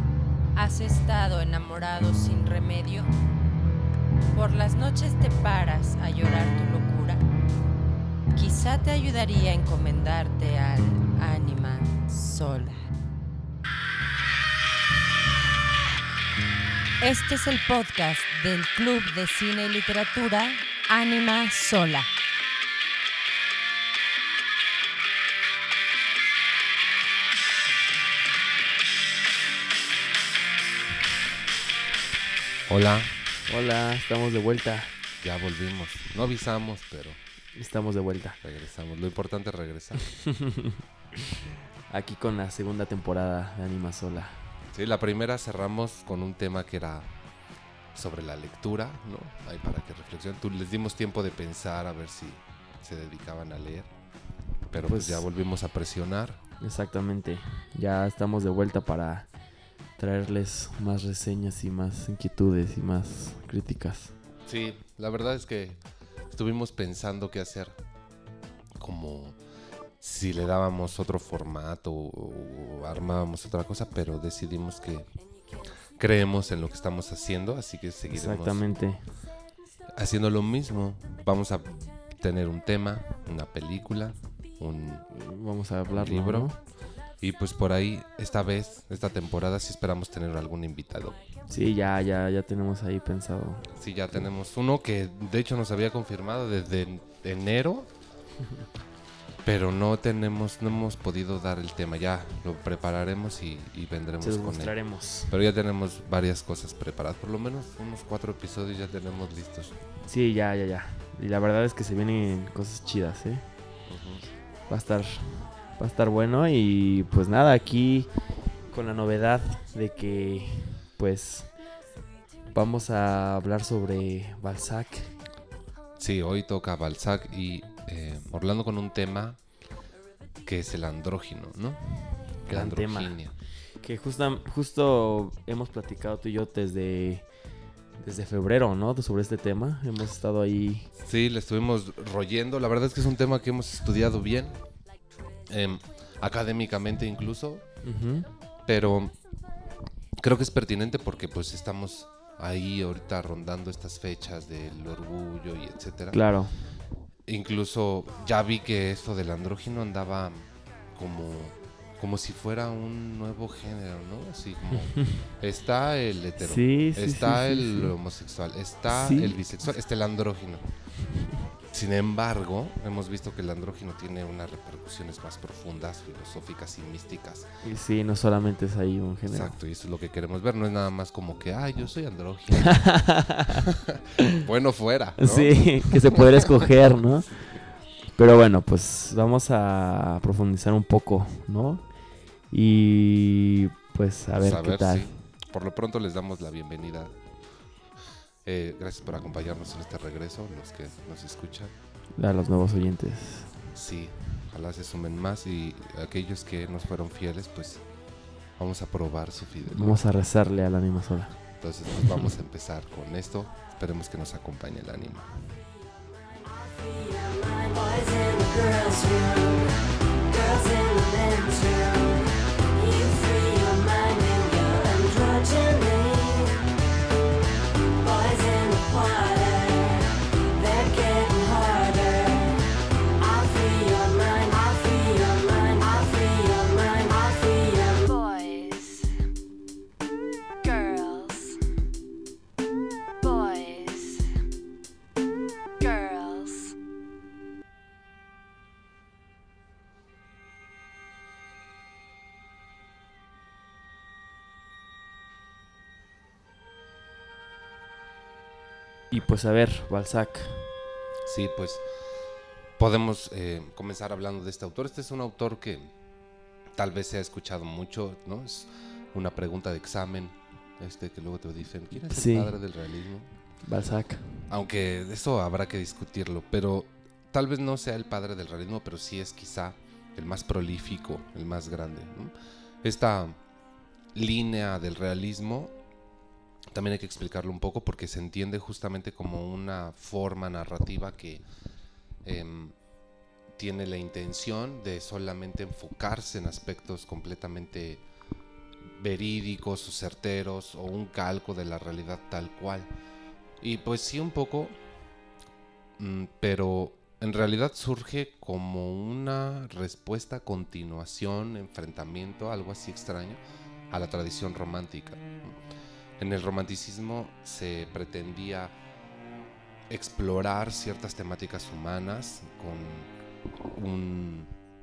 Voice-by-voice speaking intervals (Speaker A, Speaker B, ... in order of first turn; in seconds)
Speaker A: 0.6-3.1, 4.3-7.2, 8.3-12.9, 17.0-22.1
Speaker B: 32.7-33.1, 35.2-37.2, 38.4-40.1, 44.7-47.1, 47.9-53.9, 54.7-56.4, 64.5-65.8, 66.3-67.8, 68.8-69.4, 70.0-75.1, 76.0-78.7, 79.9-85.1, 85.9-86.5, 87.2-91.2, 93.8-97.9, 99.4-109.8, 113.9-114.3, 126.0-129.4, 130.4-133.4, 141.0-144.6, 145.5-147.7, 148.7-149.2, 150.2-156.3, 157.3-170.7, 171.7-177.5, 179.3-183.0, 183.7-186.4, 194.4-197.2, 198.4-201.7, 203.7-207.8, 208.6-210.0, 211.6-215.6, 261.2-261.9, 262.8-265.9, 266.8-273.3, 274.5-283.4, 284.1-285.7, 286.7-291.4, 292.2-292.8, 293.6-298.0, 298.9-302.9, 303.6-304.8, 306.0-313.4, 313.9-315.6, 316.2-318.8, 319.9-323.1, 323.7-324.5
Speaker C: 33.5-34.9, 37.6-38.4, 40.2-41.2, 41.9-44.4, 54.8-55.3, 56.6-59.3, 60.0-64.1, 78.1-79.0, 85.1-86.6, 91.5-94.3, 104.2-105.3, 110.0-113.4, 114.7-118.1, 118.7-121.5, 122.5-125.2, 132.5-133.2, 133.8-137.3, 138.0-140.9, 147.8-148.3, 156.1-156.6, 166.4-167.9, 168.9-169.4, 177.6-179.6, 182.6-183.7, 185.2-187.5, 188.1-191.8, 192.5-195.1, 202.2-203.5, 209.7-211.4, 259.1-260.7, 272.1-272.6, 273.6-274.4
Speaker D: 216.3-226.6, 228.0-239.2, 240.6-241.6, 243.2-244.4, 245.8-246.8